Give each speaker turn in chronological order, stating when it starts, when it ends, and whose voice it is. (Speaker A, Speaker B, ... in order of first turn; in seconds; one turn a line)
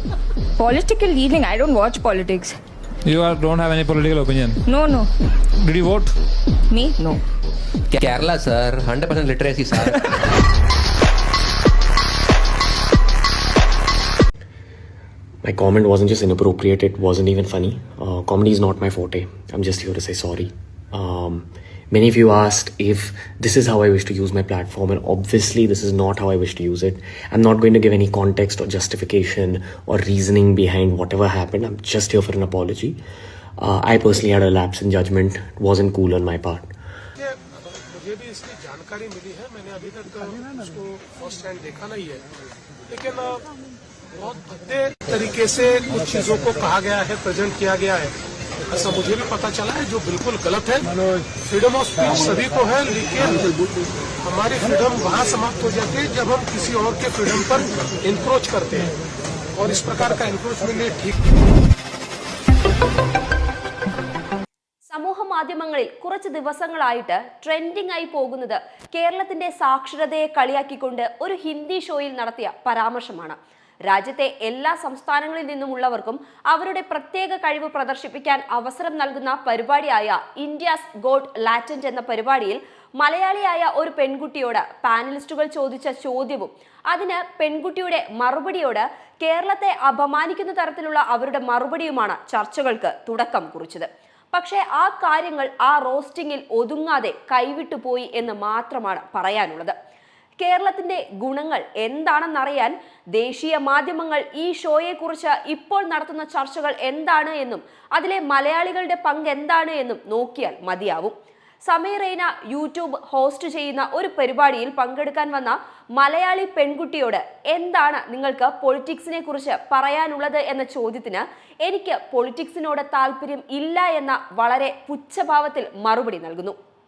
Speaker A: 0.6-2.5
Speaker B: 3.0-4.6
Speaker A: 4.7-5.1
Speaker B: 5.6-6.1
Speaker A: 6.7-7.2
Speaker C: 7.9-10.0
Speaker D: 15.4-33.0
Speaker D: 33.6-36.7
Speaker E: 37.2-42.2
Speaker E: 42.9-43.4
Speaker E: 44.1-48.1
Speaker E: 48.7-53.6
Speaker E: 54.2-58.9
Speaker E: 59.5-61.3
Speaker F: 64.9-99.7
Speaker F: 100.4-111.1
Speaker F: 111.6-126.5